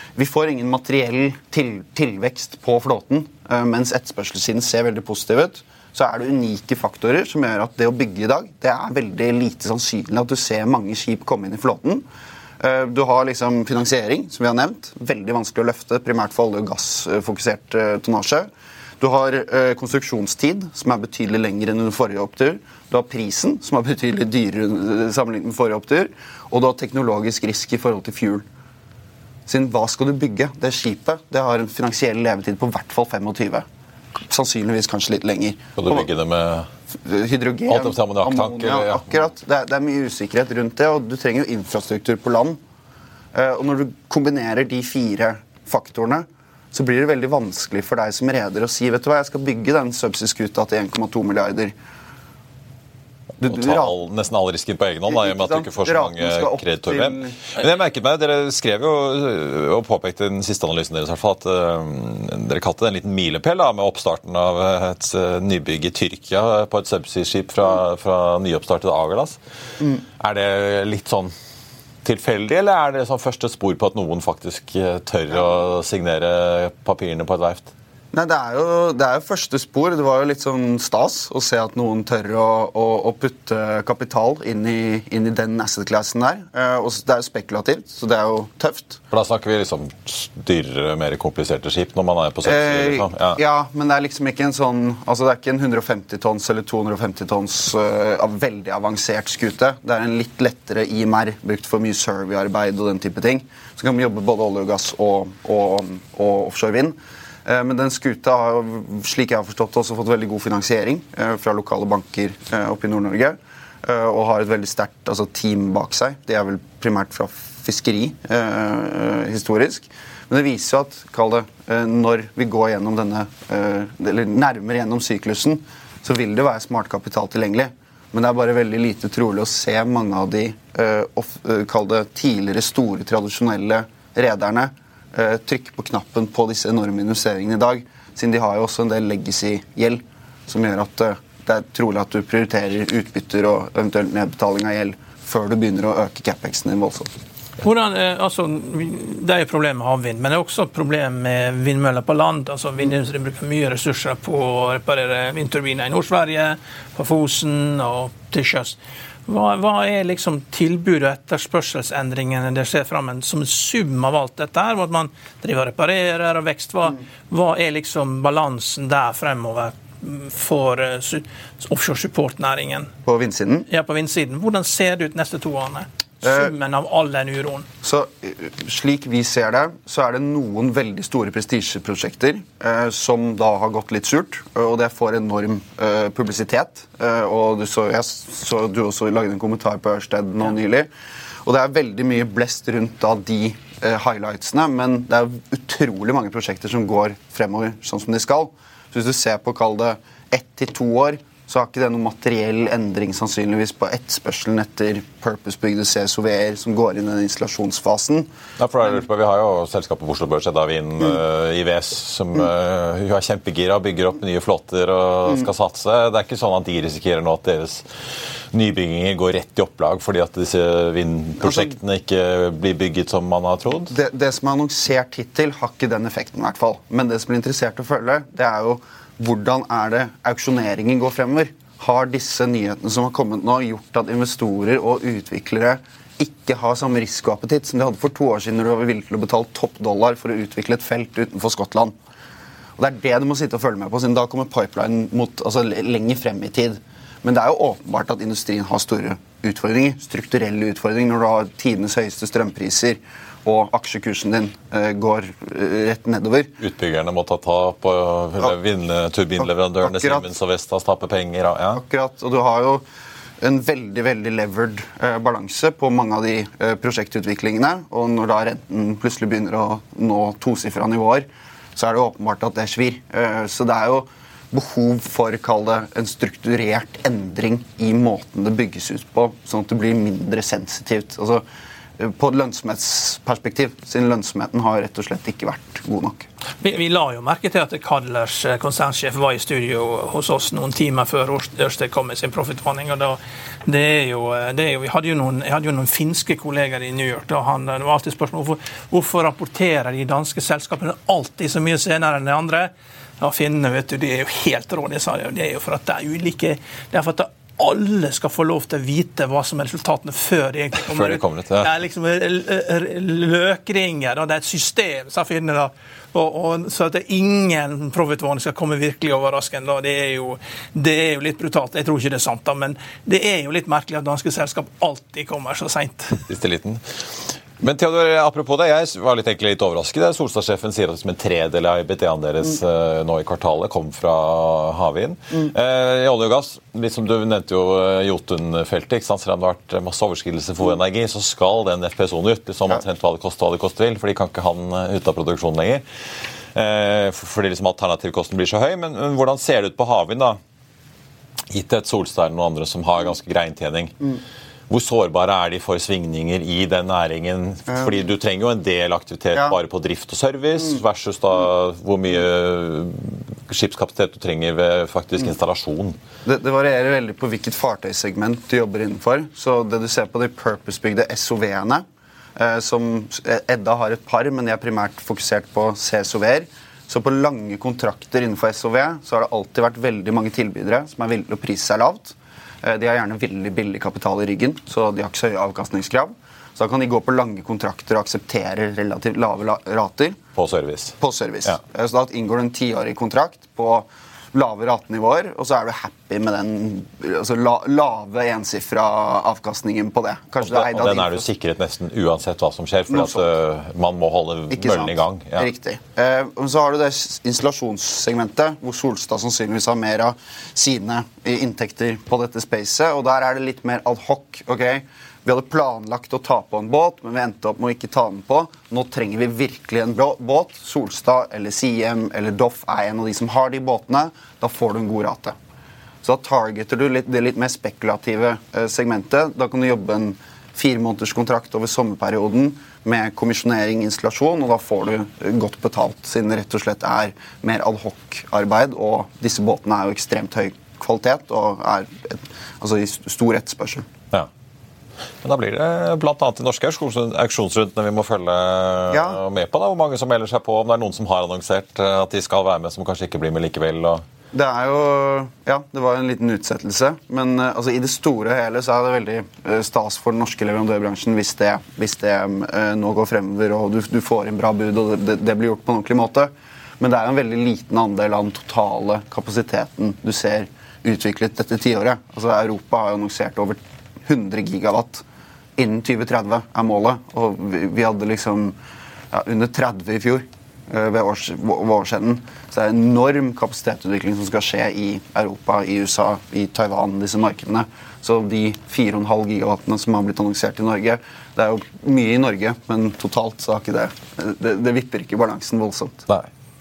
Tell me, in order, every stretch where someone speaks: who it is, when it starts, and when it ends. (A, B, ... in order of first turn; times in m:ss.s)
0:00.2-0:12.1 A
0:12.6-0:18.5 A
0:19.0-0:28.5 A
0:29.5-0:33.7 A
0:34.2-0:36.1 A
0:35.8-0:36.7 B
0:37.0-0:42.6 A
0:37.7-0:39.1 B
0:43.3-0:51.7 A
0:53.4-0:54.0 A
0:53.4-1:09.4 B
0:55.1-0:57.4 A
1:10.2-1:11.3 B
1:12.0-1:17.7 B
1:18.1-1:29.0 A
1:29.1-1:33.4 B
1:32.4-2:27.1 A
2:27.6-2:52.9 C
2:53.0-2:53.7 A
2:53.7-2:57.7 C
2:56.2-2:56.5 A
2:57.8-3:10.9 A
3:11.4-3:28.3 A
3:28.6-3:37.9 B
3:38.5-3:43.9 B
3:41.4-3:41.7 A
3:43.9-4:02.0 A
4:02.8-4:16.5 A
4:16.6-4:21.8 B
4:19.4-4:20.3 A
4:21.7-4:22.8 A
4:23.4-4:41.4 A
4:42.0-4:46.3 A
4:46.6-5:26.2 C
5:10.8-5:11.7 B
5:26.2-5:45.8 B
5:46.6-5:50.4 B
5:51.5-5:54.2 B
5:54.7-6:06.0 B
6:06.3-6:11.8 A
6:12.4-6:30.2 A
6:30.4-6:31.6 B
6:31.0-6:41.3 A
6:40.4-6:45.5 B
6:42.9-6:43.3 A
6:44.5-7:05.4 A
7:06.0-7:23.9 A
7:25.2-7:34.0 B
7:28.9-7:29.2 A
7:34.3-7:55.0 A
7:55.6-7:58.6 A
7:59.1-8:16.0 A